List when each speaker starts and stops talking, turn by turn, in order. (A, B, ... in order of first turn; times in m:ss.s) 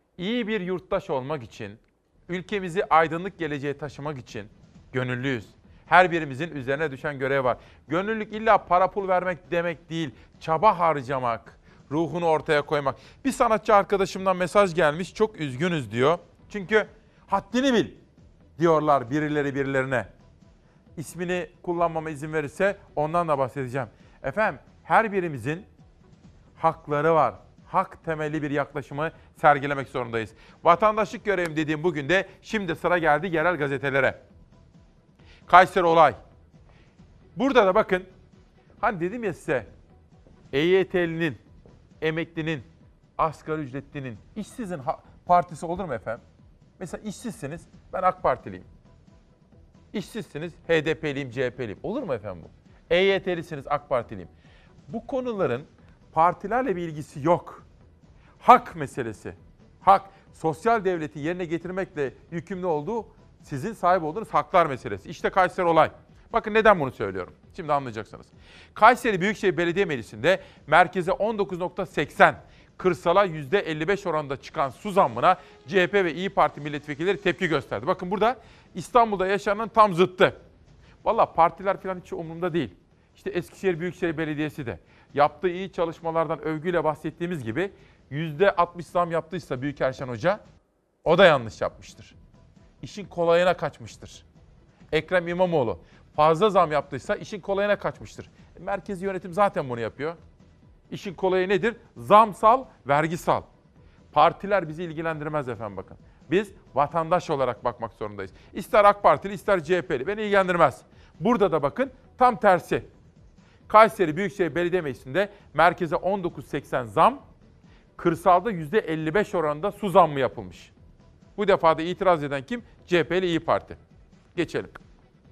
0:00.2-0:18.0 A
0:18.6-0:20.1 A
0:21.0-0:25.7 A
0:26.6-0:34.2 A
0:35.5-0:36.2 A
0:37.4-0:38.1 A
0:38.8-0:39.7 A
0:40.5-0:41.4 A
0:42.0-0:42.7 A
0:43.2-0:46.2 A
0:46.8-0:48.7 A
0:49.9-0:54.3 A
0:54.9-0:57.6 A
0:58.4-1:20.4 A
1:21.0-1:30.4 A
1:31.0-1:32.2 A
1:32.8-1:34.2 A
1:34.9-1:40.2 A
1:40.9-1:43.5 A
1:44.1-1:52.9 A
1:53.7-1:57.2 A
1:58.0-2:00.7 A
2:01.4-2:03.8 A
2:04.4-2:04.8 A